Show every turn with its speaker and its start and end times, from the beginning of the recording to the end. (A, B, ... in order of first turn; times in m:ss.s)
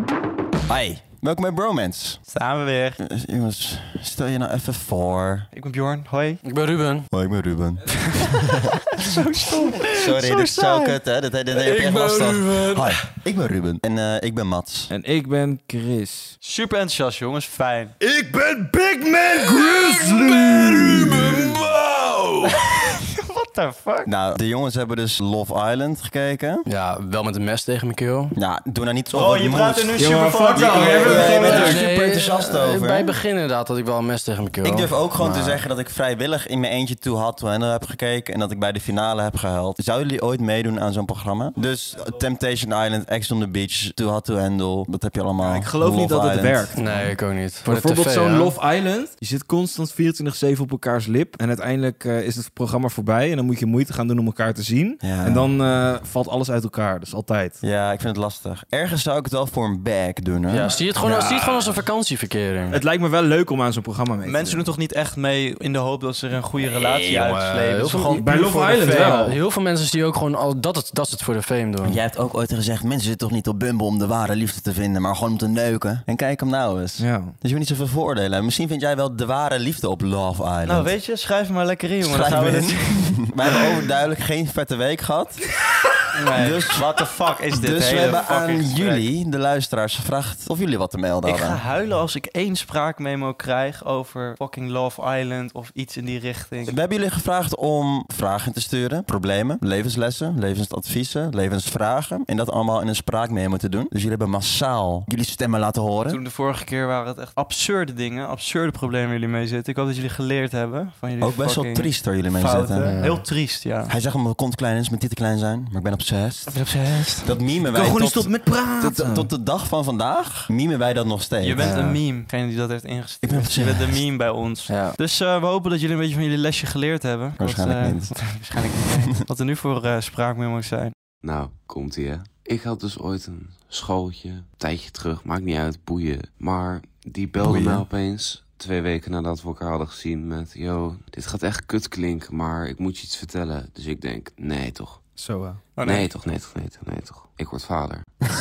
0:00.7-0:02.2 A
0:02.3-0:03.0 B
0:03.0-0:05.5 A
0:05.5-0:06.4 B
0:06.4-0:07.1 C
0:07.1-0:08.6 A
0:09.0-0:10.8 B
0:09.9-0:14.9 A
0:11.5-0:13.0 C
0:14.9-0:16.4 D
0:16.4-0:17.9 B
0:18.0-0:22.6 D
0:22.8-0:24.1 B
0:24.0-0:26.6 A
0:26.7-0:28.4 C
0:28.3-0:33.2 A
0:29.1-0:31.8 B
0:30.0-0:31.8 D
0:31.5-0:35.6 C
0:34.6-0:47.1 A
0:45.4-0:47.1 D
0:46.7-0:48.5 C
0:47.6-0:57.6 D
0:55.0-0:55.5 A
0:57.6-1:00.7 A
1:00.5-1:02.8 C
1:01.0-1:01.8 D
1:02.7-1:04.7 D
1:04.2-1:09.2 B
1:06.6-1:12.0 C
1:08.1-1:09.4 D
1:11.8-1:20.9 A
1:17.0-1:17.4 D
1:20.6-1:23.6 B
1:22.0-1:25.5 A
1:26.1-1:29.0 B
1:26.3-1:31.6 A
1:31.2-1:36.8 B
1:36.6-1:46.2 A
1:46.1-1:53.9 B
1:51.2-1:53.2 A
1:52.8-1:53.2 C
1:53.9-1:56.7 A
1:56.5-1:57.3 B
1:57.2-2:02.0 A
1:57.7-1:59.3 D
2:01.4-2:10.9 B
2:01.6-2:02.0 D
2:03.2-2:04.0 A
2:04.7-2:05.0 C
2:07.4-2:08.6 A
2:11.2-2:25.2 E
2:17.4-2:17.9 A
2:25.2-2:25.6 D
2:25.8-2:26.1 B
2:25.8-2:28.1 E